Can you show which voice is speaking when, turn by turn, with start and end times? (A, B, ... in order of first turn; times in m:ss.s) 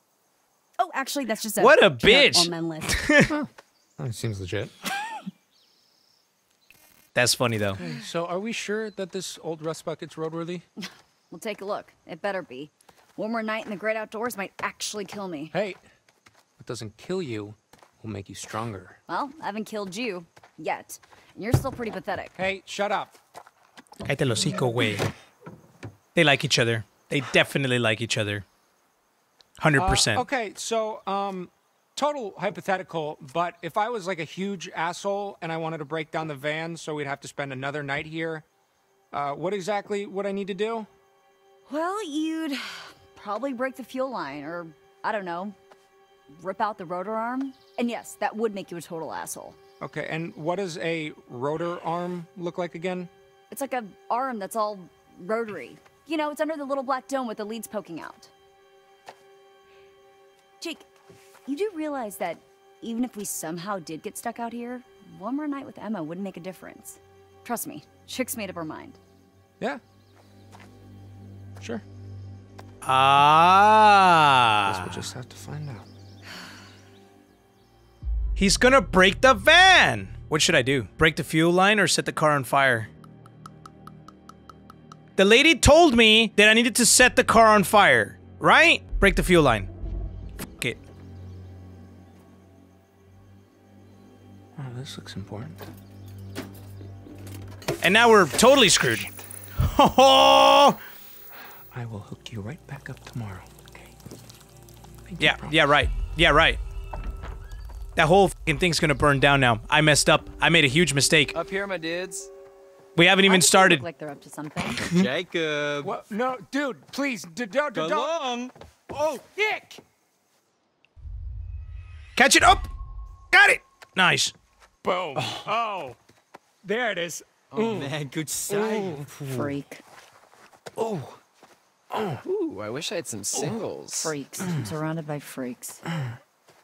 0:00.8-0:03.0 A
0:01.6-0:03.3 B
0:03.3-0:04.7 C
0:07.2-0:07.8 B
0:07.8-0:10.6 C
0:11.3-0:15.5 A
0:15.5-0:15.8 C
0:16.6-0:19.0 C
0:19.1-0:22.3 A
0:22.4-0:23.2 C
0:24.1-0:25.1 B
0:26.2-0:28.4 B
0:29.6-0:30.2 B
0:29.8-0:38.4 C
0:39.1-0:40.9 C
0:41.7-0:45.6 A
0:46.3-0:49.6 A
0:49.8-0:53.1 C
0:53.5-0:58.3 A
1:00.6-1:00.9 A
1:01.5-1:09.0 A
1:12.8-1:15.1 B
1:14.7-1:15.9 C
1:18.4-1:22.9 B
1:25.2-1:29.7 B
1:34.6-1:35.6 C
1:37.8-1:40.8 B
1:38.8-1:39.2 C
1:41.7-1:43.9 C
1:45.1-1:45.6 C
1:45.2-1:46.6 B
1:48.0-1:51.4 B
1:51.3-1:52.3 D
1:53.0-1:53.8 B
1:53.3-1:54.8 A
1:54.8-1:55.1 B
1:54.8-1:56.0 E
1:55.8-1:58.2 C
1:57.7-1:58.5 E
1:58.9-1:59.8 C
2:02.2-2:02.7 B
2:03.3-2:04.3 B
2:04.8-2:06.0 C
2:05.1-2:05.5 E
2:06.6-2:07.9 C
2:07.5-2:09.4 E
2:08.6-2:09.6 C
2:09.3-2:09.8 A
2:10.8-2:11.2 C
2:11.9-2:12.2 C
2:12.2-2:14.2 D
2:14.0-2:15.8 A
2:14.5-2:14.7 C